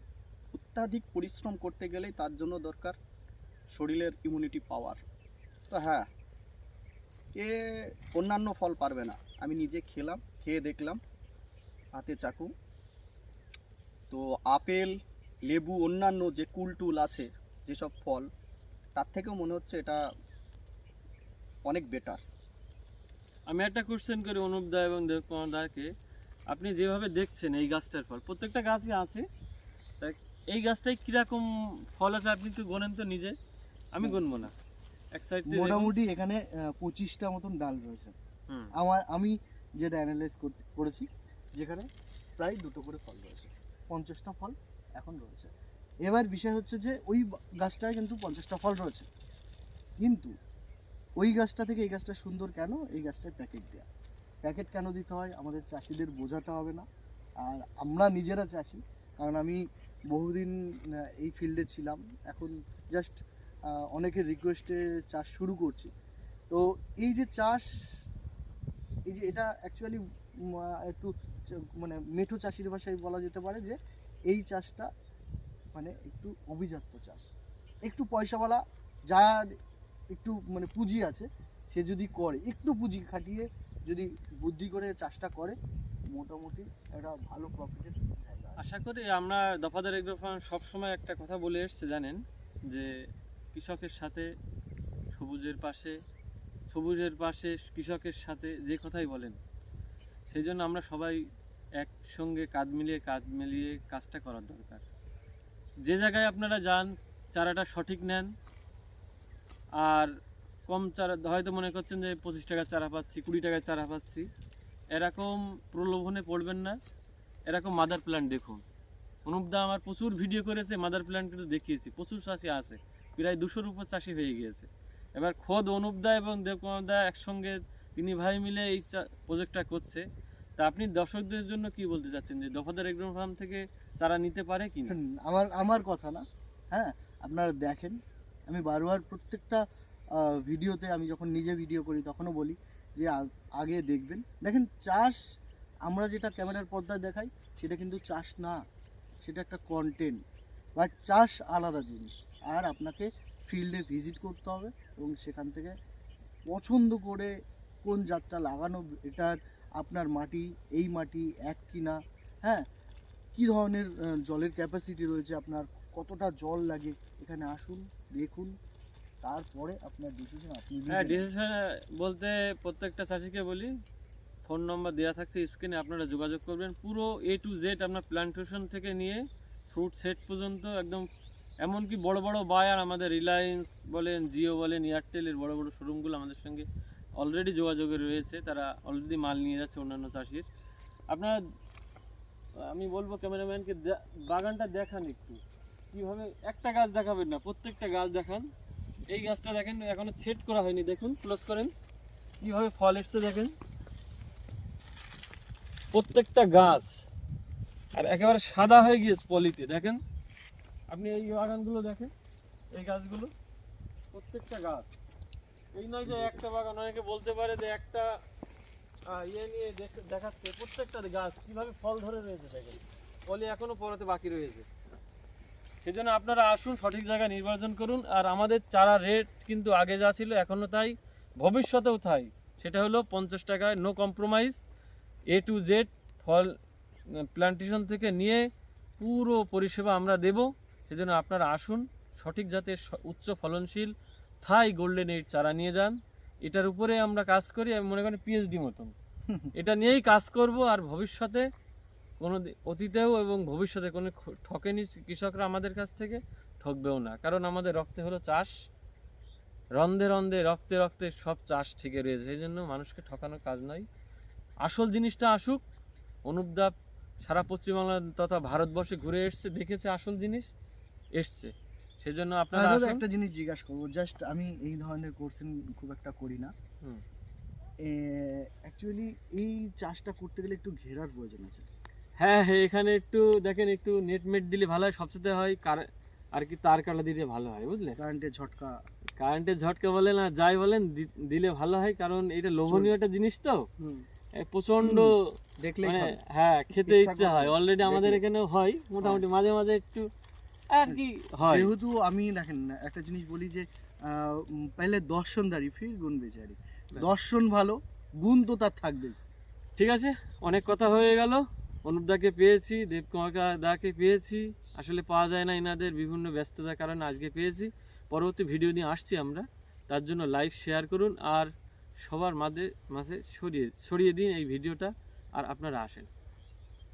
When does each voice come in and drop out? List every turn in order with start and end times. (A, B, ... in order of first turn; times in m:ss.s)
0:00.5-0:03.0 A
0:03.7-0:05.0 A
0:05.7-0:06.0 A
0:07.4-0:11.0 A
0:12.0-0:12.5 A
0:14.1-0:14.9 A
0:15.5-0:18.2 A
0:19.0-0:20.0 A
0:21.6-0:22.2 A
0:23.5-0:25.9 B
0:26.5-0:29.2 B
0:30.0-0:33.3 B
0:33.9-0:34.5 B
0:34.0-0:34.5 C
0:35.1-0:35.9 B
0:35.5-0:38.1 C
0:38.8-0:41.8 C
0:42.4-0:45.5 C
0:46.0-0:49.1 C
0:50.0-0:50.3 C
0:51.2-0:53.8 C
0:54.4-0:56.8 C
0:57.4-1:05.9 C
1:06.5-1:08.0 C
1:09.1-1:13.8 C
1:14.3-1:14.9 C
1:15.7-1:17.3 C
1:17.8-1:19.5 C
1:20.1-1:25.6 C
1:26.1-1:28.7 C
1:28.6-1:32.9 B
1:33.5-1:34.3 B
1:35.1-1:36.0 B
1:36.7-1:39.4 B
1:40.3-1:41.2 B
1:41.8-1:44.8 B
1:45.8-1:48.3 B
1:49.8-1:50.1 B
1:50.7-1:54.3 B
1:54.9-1:56.8 B
1:57.5-1:58.6 B
1:59.2-2:10.0 B
2:10.6-2:15.0 B
2:14.8-2:18.0 C
2:18.5-2:19.6 C
2:20.2-2:25.2 C
2:25.8-2:28.6 C
2:29.2-2:30.2 C
2:30.8-2:35.7 C
2:36.5-2:37.3 C
2:37.8-2:42.6 C
2:43.3-2:48.5 C
2:49.2-2:51.3 C
2:50.9-2:53.7 B
2:54.4-3:01.1 B
3:01.6-3:10.5 B
3:11.1-3:11.4 B
3:12.6-3:15.4 B
3:15.9-3:18.5 B
3:19.1-3:21.7 B
3:22.4-3:23.5 B
3:25.9-3:27.0 B
3:27.9-3:30.0 B
3:30.9-3:32.1 B
3:32.7-3:33.3 B
3:34.1-3:35.0 B
3:35.7-3:38.1 B
3:36.1-3:36.4 C
3:39.1-3:44.6 B
3:45.8-3:54.6 B
3:55.3-3:56.5 B
3:57.2-3:58.4 B
3:59.0-4:03.9 B
4:04.4-4:08.9 B
4:09.5-4:11.5 B
4:12.2-4:18.5 B
4:19.8-4:23.8 B
4:24.6-4:25.6 B
4:26.2-4:30.5 B
4:31.1-4:33.0 B
4:32.5-4:36.5 C
4:37.8-4:41.7 C
4:42.2-4:48.0 B
4:48.0-4:48.8 C
4:49.2-4:53.6 B
4:53.8-4:54.0 C
4:54.4-5:00.1 B
4:54.8-4:56.2 C
4:56.7-4:58.2 C
5:00.7-5:01.7 B
5:00.9-5:09.2 C
5:09.8-5:21.5 B
5:22.0-5:26.1 B